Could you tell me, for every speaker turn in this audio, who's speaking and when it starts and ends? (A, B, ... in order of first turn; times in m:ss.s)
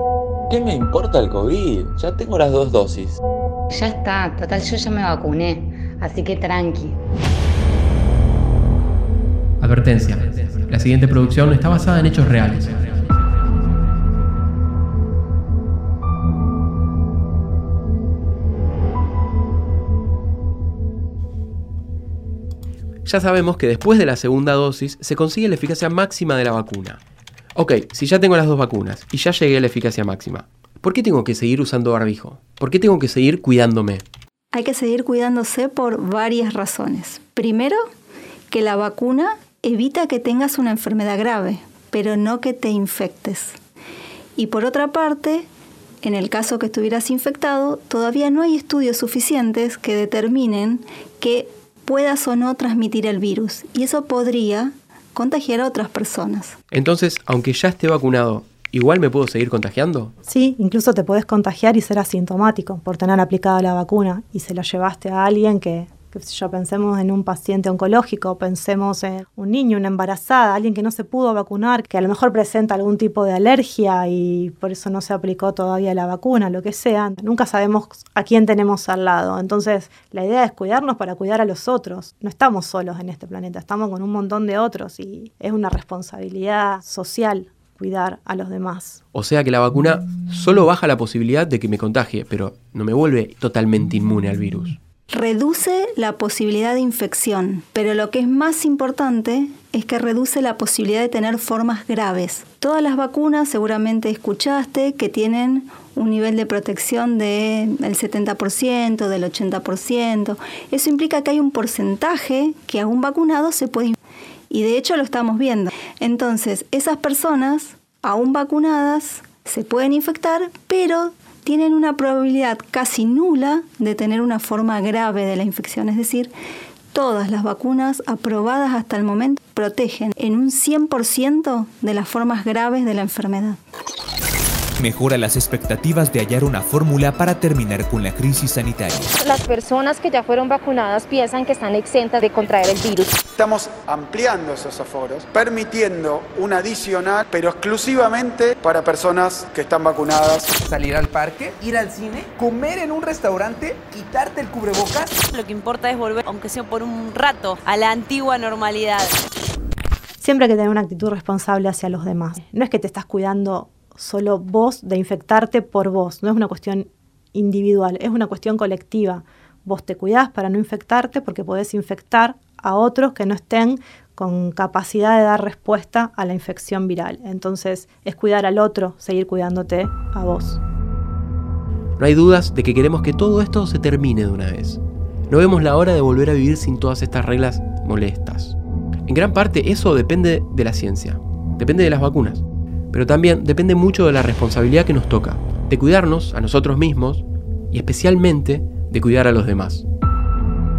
0:00.5-0:03.2 A
0:03.7-0:07.0 B
0:09.6-0:12.7 C
0:23.0-0:27.0 C
0:27.5-0:34.0 C
0:34.5-0:37.8 D
0:38.5-0:43.6 D
0:44.4-0:45.5 D
0:46.0-0:56.6 D
0:56.7-1:00.1 C
1:00.2-1:29.0 E
1:29.1-1:34.8 C
1:35.1-1:54.0 D
1:54.5-2:06.3 D
2:06.9-2:13.6 D
2:14.8-2:19.1 F
2:19.2-2:23.1 G
2:23.3-2:30.5 H
2:30.6-2:35.2 I
2:35.3-2:39.1 J
2:40.2-3:00.6 E
3:02.0-3:19.8 C